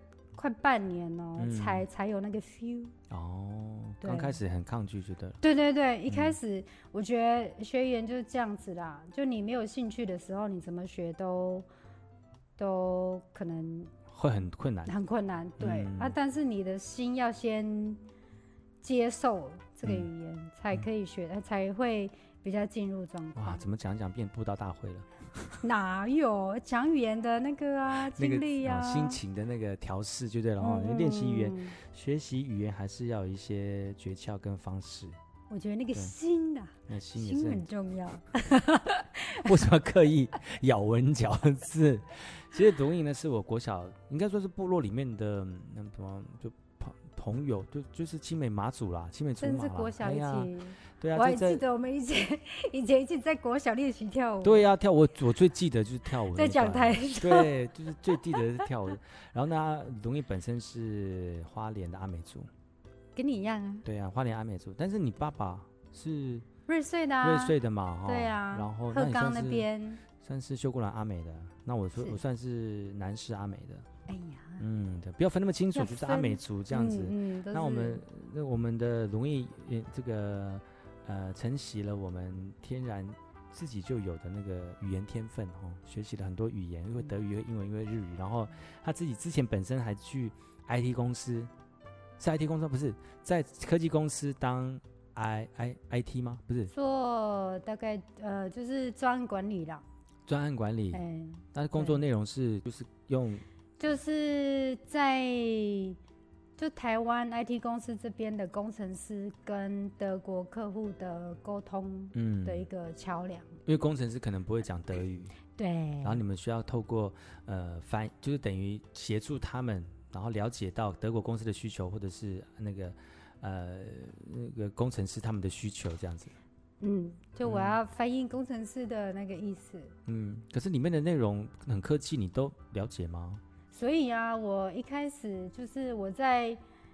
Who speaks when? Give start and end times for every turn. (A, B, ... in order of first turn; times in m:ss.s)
0:00.4-0:03.0 A
0:01.4-0:01.9 B
0:03.1-0:05.4 B
0:04.0-0:04.4 A
0:05.4-0:11.7 A
0:06.1-0:06.4 B
0:12.6-0:13.9 A
0:14.1-0:14.9 B
0:14.9-0:18.0 A
0:15.6-0:16.2 B
0:18.8-0:23.6 A
0:23.4-0:25.6 B
0:25.6-0:29.2 A
0:28.1-0:35.2 B
0:30.6-0:31.8 A
0:35.5-0:39.5 A
0:36.9-0:37.7 B
0:39.4-0:51.6 B
0:49.4-0:54.6 A
0:54.4-1:02.5 B
0:56.3-0:57.6 A
0:58.1-0:58.4 A
1:03.2-1:03.8 A
1:03.8-1:06.5 B
1:06.7-1:10.0 A
1:07.2-1:13.9 B
1:14.1-1:14.6 A
1:14.6-1:31.5 B
1:15.7-1:18.0 A
1:32.2-1:36.7 B
1:36.7-1:39.8 A
1:40.3-1:41.0 B
1:40.9-1:42.0 A
1:41.5-1:43.4 B
1:43.8-1:46.0 A
1:46.6-1:53.6 A
1:52.1-1:52.6 B
1:53.7-1:55.4 B
1:55.6-1:56.2 A
1:56.0-2:06.4 B
2:06.8-2:10.0 A
2:07.4-2:07.8 B
2:10.1-2:13.4 B
2:13.7-2:16.6 A